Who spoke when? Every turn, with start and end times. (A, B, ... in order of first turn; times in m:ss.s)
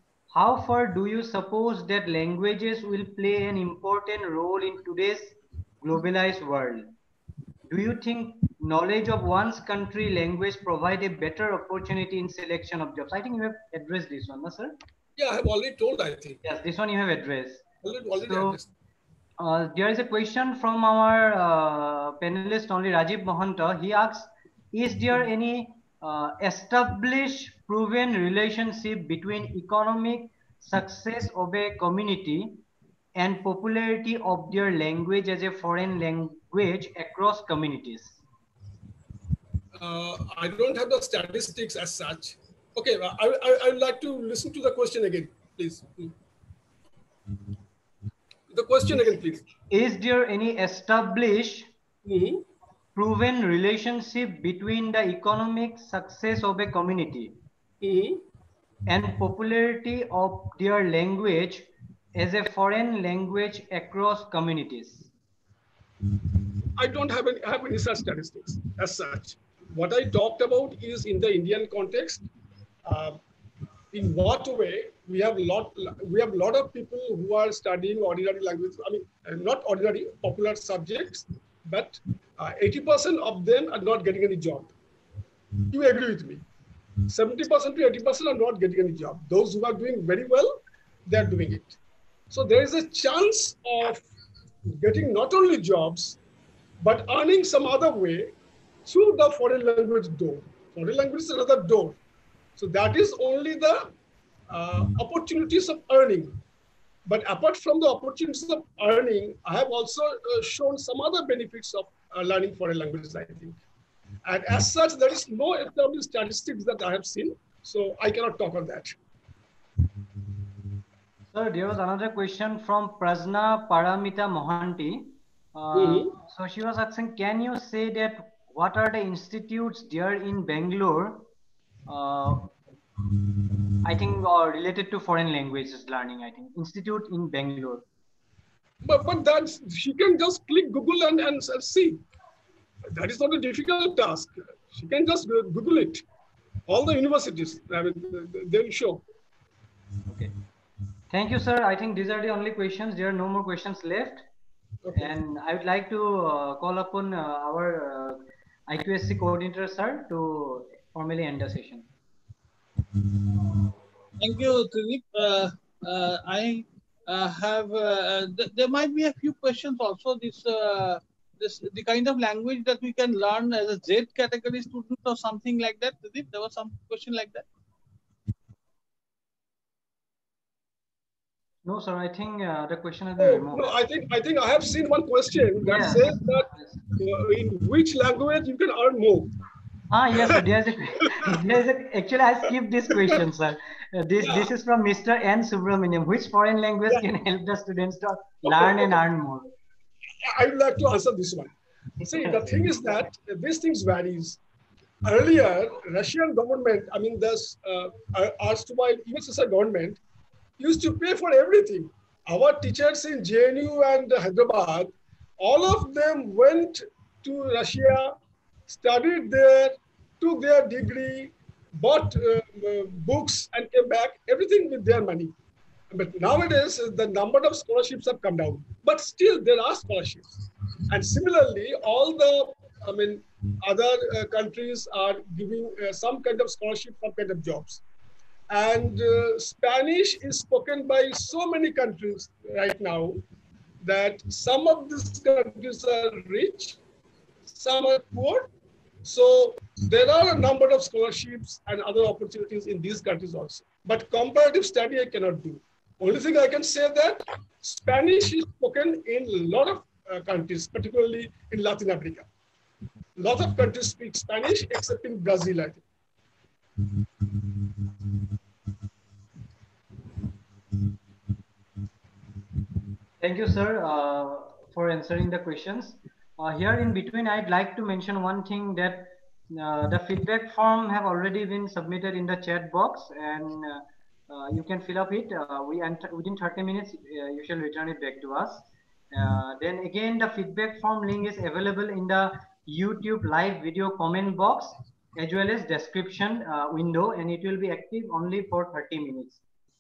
0:00.3-0:06.9 A
0:07.7-0:14.8 A
0:15.2-0:16.4 B
0:16.4-0:17.7 A
0:17.8-0:18.7 B
0:18.2-0:18.6 A
0:19.4-0:32.6 A
0:33.2-0:38.2 A
0:39.8-0:46.1 B
0:48.5-0:49.5 B
0:49.7-0:51.7 A
0:52.0-0:52.4 B
0:53.0-0:57.4 A
0:57.8-0:58.2 B
0:58.9-1:05.1 A
1:06.8-1:12.2 B
1:12.8-1:13.2 B
1:13.9-1:24.7 B
1:25.7-1:26.4 B
1:27.1-1:31.8 B
1:32.3-1:34.1 B
1:34.8-1:36.2 B
1:36.8-1:38.3 B
1:38.9-1:42.0 B
1:42.6-1:43.9 B
1:44.5-1:46.4 B
1:47.1-1:53.6 B
1:54.2-1:59.0 B
2:01.3-2:11.3 A
2:05.7-2:06.1 B
2:11.9-2:12.5 A
2:13.8-2:17.8 A
2:18.8-2:22.0 B
2:22.9-2:26.0 B
2:26.7-2:29.0 B
2:30.1-2:30.4 A
2:31.1-2:34.3 A
2:34.8-2:35.2 B
2:35.0-2:41.9 A
2:44.2-2:57.5 C
3:01.6-3:03.7 A
3:03.2-3:09.3 B
3:05.6-3:06.8 A
3:09.9-3:19.5 A
3:14.2-3:14.5 B
3:18.5-3:18.9 B
3:20.2-3:24.4 B
3:22.2-3:22.6 A
3:25.0-3:30.0 B
3:30.6-3:38.2 B
3:38.7-3:45.4 B
3:45.9-3:50.3 B
3:50.9-3:57.8 B
3:58.5-4:03.2 B
4:03.8-4:06.8 B
4:07.5-4:08.5 B
4:09.0-4:22.3 B
4:23.2-4:25.8 B
4:33.2-4:59.4 A